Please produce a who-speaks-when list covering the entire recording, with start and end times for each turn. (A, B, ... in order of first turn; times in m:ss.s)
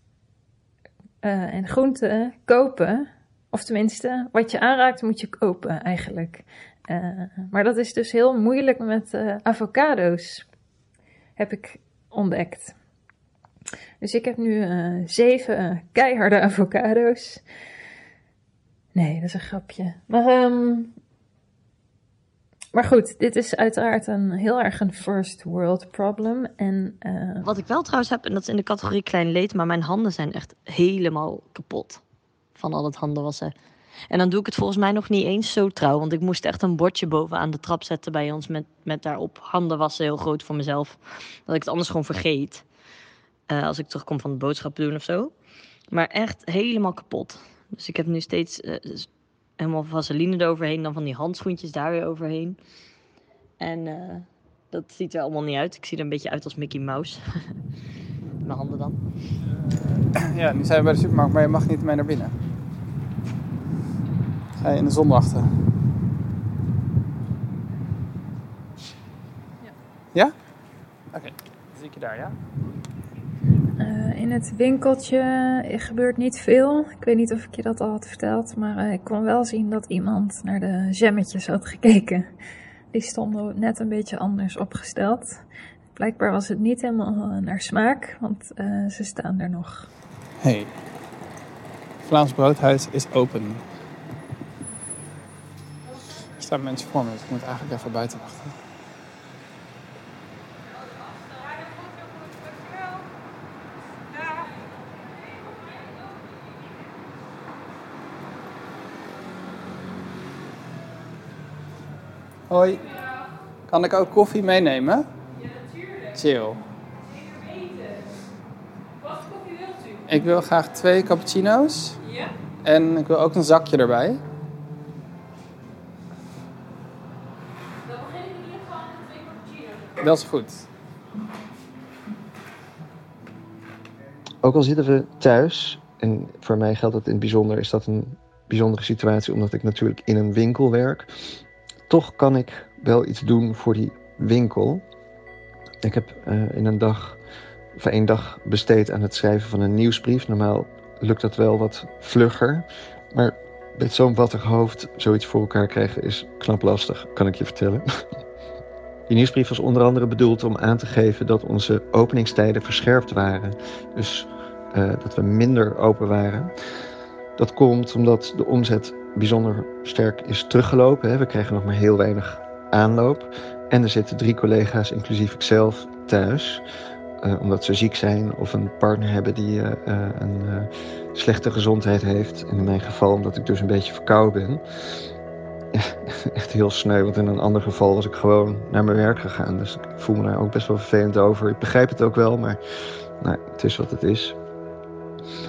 0:01.2-0:10.4 A
0:11.4-0:12.7 A
0:14.0-0:17.4 A
0:18.9-0:20.9 A
0:22.7-0:27.4 A
0:27.4-0:32.0 B
0:32.6-0:33.5 B
0:34.1-0:42.6 B
0:43.5-0:45.3 B
0:45.9-0:52.6 B
0:53.6-0:57.2 B
0:58.4-0:59.0 B
0:59.8-1:02.3 C
1:04.6-1:05.6 C
1:11.1-1:12.4 C
1:13.8-1:22.3 A
1:22.9-1:29.9 A
1:30.4-1:30.7 C
1:32.0-1:33.6 C
1:36.4-1:38.6 C
1:42.4-1:42.8 D
1:52.5-1:52.8 C
1:52.6-1:53.3 D
1:53.7-1:55.1 C
1:55.3-1:56.2 D
1:56.1-1:56.6 C
1:57.1-1:58.2 D
1:59.0-2:00.1 D
2:00.1-2:02.0 C
2:02.0-2:02.3 D
2:02.6-2:04.2 C
2:07.8-2:10.0 D
2:10.0-2:10.7 C
2:14.4-2:24.8 E
2:25.8-2:27.2 E
2:27.7-2:38.0 E
2:39.1-2:46.5 E
2:47.4-2:56.6 E
2:57.2-3:04.6 E
3:05.7-3:12.6 E
3:13.2-3:14.4 E